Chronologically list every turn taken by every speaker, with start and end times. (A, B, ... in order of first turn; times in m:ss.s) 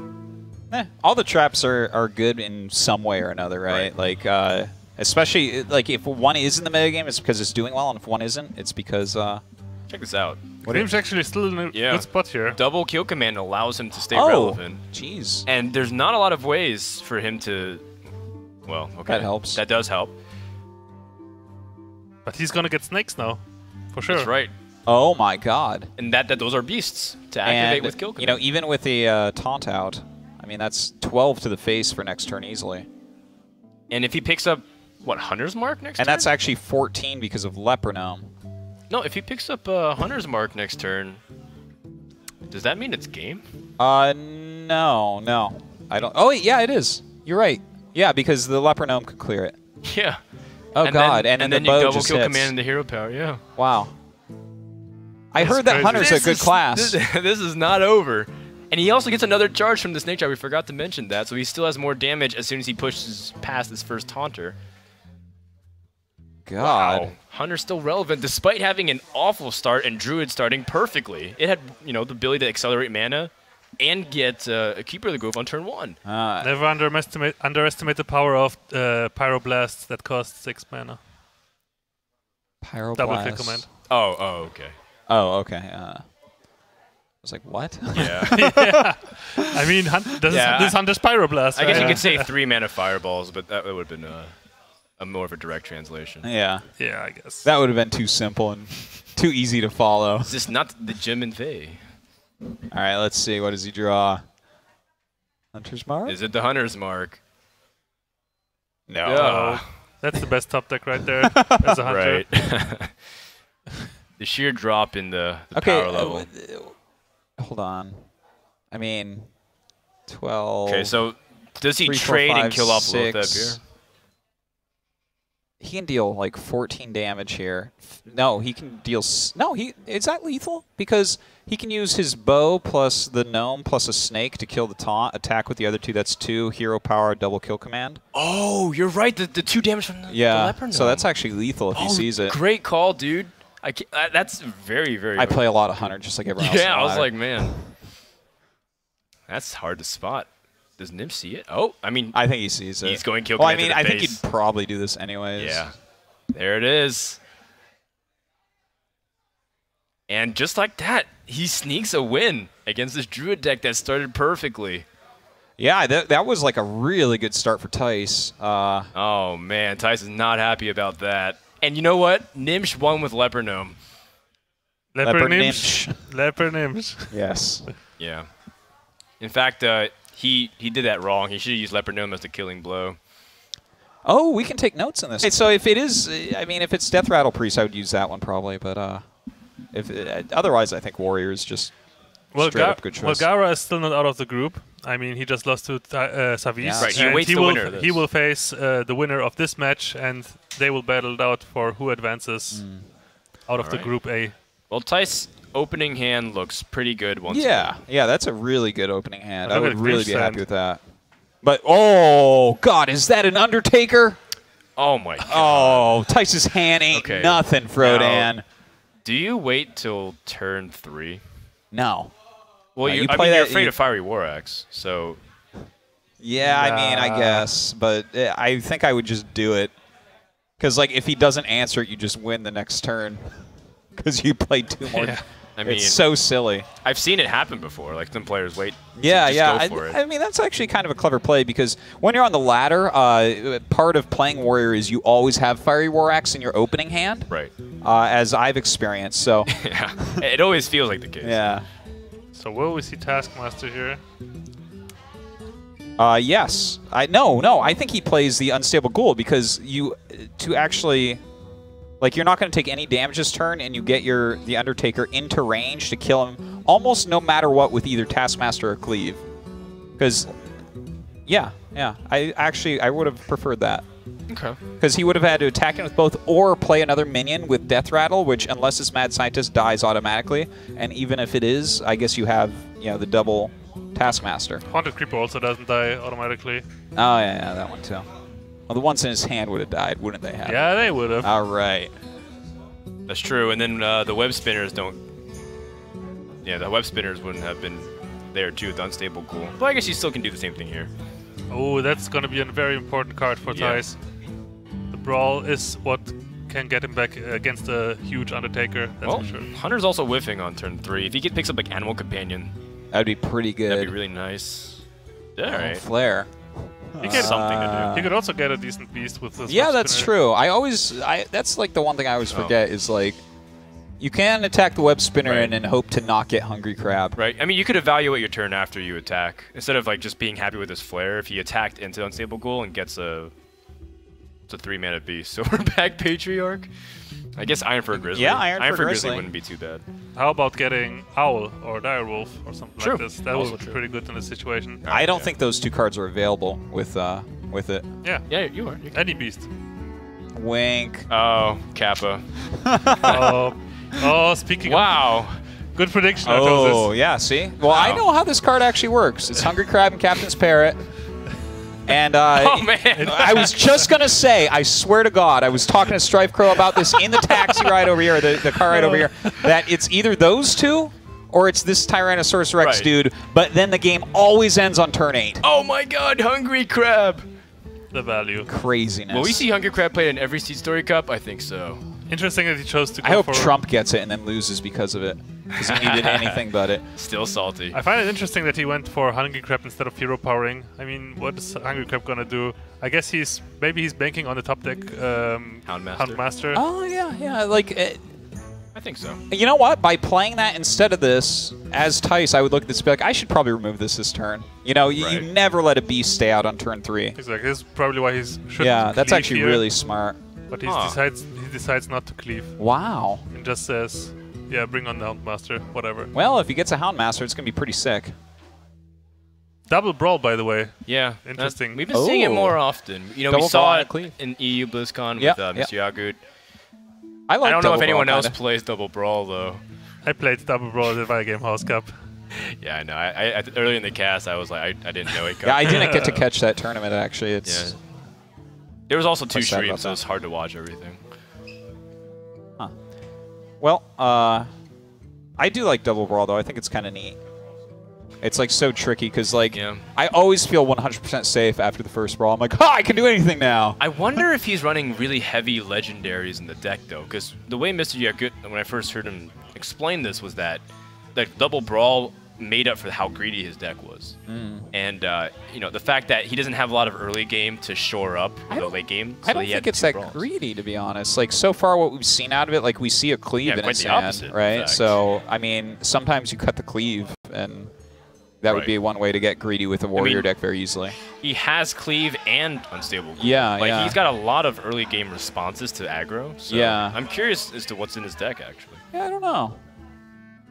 0:00.7-0:09.4 A
0:09.9-0:10.4 B
0:10.6-0:10.9 A
0:10.7-0:12.6 C
0:11.7-0:14.8 B
0:14.1-0:15.4 A
0:15.4-0:17.9 B
0:18.6-0:20.1 B
0:19.1-0:19.6 A
0:22.2-0:23.4 C
0:23.9-0:24.3 C
0:24.1-0:24.5 B
0:24.9-0:25.9 A
0:26.0-0:28.4 B
0:27.4-0:32.9 A
0:33.9-0:36.3 B
0:36.0-0:38.3 A
0:38.9-0:41.2 B
0:42.5-0:43.4 B
0:43.8-0:49.6 A
0:49.8-0:50.2 B
0:50.7-0:52.5 A
0:50.8-0:53.4 B
0:53.6-0:53.9 A
0:55.3-0:57.0 A
0:55.4-1:04.6 B
0:55.4-0:56.3 C
1:06.4-1:07.1 A
1:06.6-1:16.0 B
1:16.0-1:16.5 A
1:16.4-1:21.0 C
1:22.6-1:23.6 A
1:23.0-1:23.7 C
1:23.9-1:24.7 B
1:25.1-1:26.0 A
1:27.2-1:28.8 A
1:27.9-1:28.5 B
1:28.0-1:32.3 C
1:30.2-1:30.8 B
1:31.5-1:34.4 B
1:31.7-1:32.0 A
1:35.0-1:36.3 B
1:36.2-1:36.8 A
1:36.8-1:37.4 C
1:37.4-1:40.3 A
1:40.2-1:41.8 B
1:42.7-1:44.2 A
1:45.5-1:46.2 A
1:46.0-1:47.2 B
1:48.9-1:49.6 A
1:49.0-1:49.6 B
1:49.0-1:52.3 C
1:51.2-1:51.7 A
1:51.8-1:53.0 B
1:54.2-1:56.3 B
1:55.5-1:56.8 A
1:57.4-1:58.0 A
1:58.7-1:59.3 A
2:00.1-2:01.0 A
2:00.6-2:03.6 B
2:01.8-2:03.6 A
2:05.6-2:18.0 A
2:18.1-2:21.1 B
2:20.1-2:22.4 A
2:21.7-2:27.6 B
2:25.2-2:27.5 A
2:29.3-2:32.2 B
2:32.1-2:35.7 A
2:32.8-2:34.2 B
2:35.4-2:35.7 B
2:36.3-2:37.2 B
2:40.1-2:44.8 B
2:45.6-2:48.9 A
2:48.9-2:53.8 B
2:54.9-2:57.1 C
2:55.0-2:56.0 A
2:57.1-2:57.7 A
2:58.0-2:58.3 B
2:59.2-3:03.0 B
3:04.0-3:09.0 A
3:09.7-3:11.7 A
3:12.3-3:22.6 C
3:12.4-3:13.2 A
3:16.6-3:17.2 A
3:16.8-3:18.0 B
3:22.5-3:22.8 A
3:23.5-3:24.3 C
3:23.6-3:23.9 B
3:24.7-3:27.8 B
3:27.3-3:30.8 A
3:29.4-3:30.4 C
3:31.4-3:34.2 A
3:34.8-3:36.0 B
3:35.2-3:38.4 A
3:36.9-3:38.3 B
3:39.0-3:41.2 B
3:41.7-3:42.1 A
3:42.8-3:45.2 B
3:42.8-3:43.7 A
3:46.2-3:49.7 A
3:46.4-3:47.5 C
3:50.6-3:53.4 A
3:53.9-3:56.7 A
3:54.9-3:55.2 C
3:55.6-3:56.0 B
3:56.8-4:00.0 B
3:59.0-4:07.3 A
4:07.8-4:10.2 A
4:09.5-4:11.4 B
4:11.2-4:11.6 A
4:12.3-4:14.0 C
4:16.0-4:21.2 A
4:22.0-4:29.2 A
4:30.0-4:30.3 A
4:31.2-4:33.8 A
4:34.3-4:34.6 B
4:34.8-4:44.6 A
4:44.7-4:46.6 C
4:47.0-4:48.1 A
4:48.7-4:51.9 A
4:50.4-4:51.3 C
4:53.1-4:55.0 B
4:56.4-5:00.9 B
5:01.5-5:04.0 C
5:03.5-5:03.8 B
5:04.9-5:09.5 C
5:09.0-5:12.5 B
5:12.9-5:13.9 A
5:13.7-5:14.8 B
5:15.4-5:15.8 B
5:15.4-5:18.1 A
5:17.0-5:17.9 B
5:17.0-5:20.1 C
5:19.5-5:23.2 A
5:22.3-5:22.6 B
5:24.0-5:27.2 A
5:25.2-5:25.6 B
5:27.2-5:33.3 B
5:34.5-5:36.7 B
5:37.4-5:39.8 B
5:38.1-5:39.2 A
5:40.1-5:44.8 C
5:42.8-5:43.8 B
5:44.8-5:45.3 B
5:44.8-5:47.8 A
5:48.3-5:49.1 B
5:48.9-5:49.5 C
5:50.3-5:51.1 A
5:51.1-5:52.3 B
5:52.5-5:53.3 A
5:52.9-5:53.3 B
5:53.0-5:55.2 C
5:54.6-5:55.4 B
5:55.7-5:56.9 C
5:56.2-6:00.8 A
5:57.7-5:58.0 B
6:01.8-6:15.4 A
6:02.3-6:03.6 B
6:03.0-6:03.5 C
6:08.7-6:09.4 C
6:12.6-6:12.9 B
6:15.4-6:17.3 B
6:17.9-6:18.5 C
6:18.5-6:19.4 A
6:19.1-6:21.8 B
6:22.1-6:23.5 C
6:23.0-6:26.8 A
6:25.5-6:27.8 B
6:27.7-6:36.6 C
6:35.6-6:36.2 B
6:36.5-6:38.0 A
6:38.7-6:39.2 B
6:39.3-6:47.2 A
6:45.0-6:45.3 B
6:47.2-6:49.6 C
6:48.6-6:50.2 A
6:50.5-6:52.6 C
6:50.6-6:51.0 B
6:52.6-6:53.2 A
6:53.3-6:56.1 C
6:56.1-6:58.1 A
6:59.7-7:01.8 C
7:00.8-7:06.2 B
7:01.9-7:02.6 A
7:03.3-7:04.1 A
7:05.2-7:05.7 A
7:07.3-7:08.4 A
7:07.4-7:09.6 B
7:10.0-7:11.9 C
7:12.3-7:16.0 B
7:15.4-7:17.8 A
7:15.7-7:16.2 C
7:17.4-7:17.7 B
7:18.9-7:21.0 B
7:19.3-7:20.0 A
7:23.6-7:24.5 A
7:25.4-7:27.2 A
7:28.2-7:33.8 A
7:29.5-7:29.8 B
7:33.8-7:40.6 B
7:41.1-7:44.2 B
7:44.3-7:44.7 A
7:44.7-7:50.2 B
7:48.5-7:57.7 A
7:53.4-7:55.0 B
7:58.4-8:01.0 A
7:58.5-7:58.7 B
8:00.0-8:00.3 B
8:01.2-8:08.8 B
8:03.2-8:04.0 A
8:06.5-8:07.0 A
8:08.9-8:09.6 A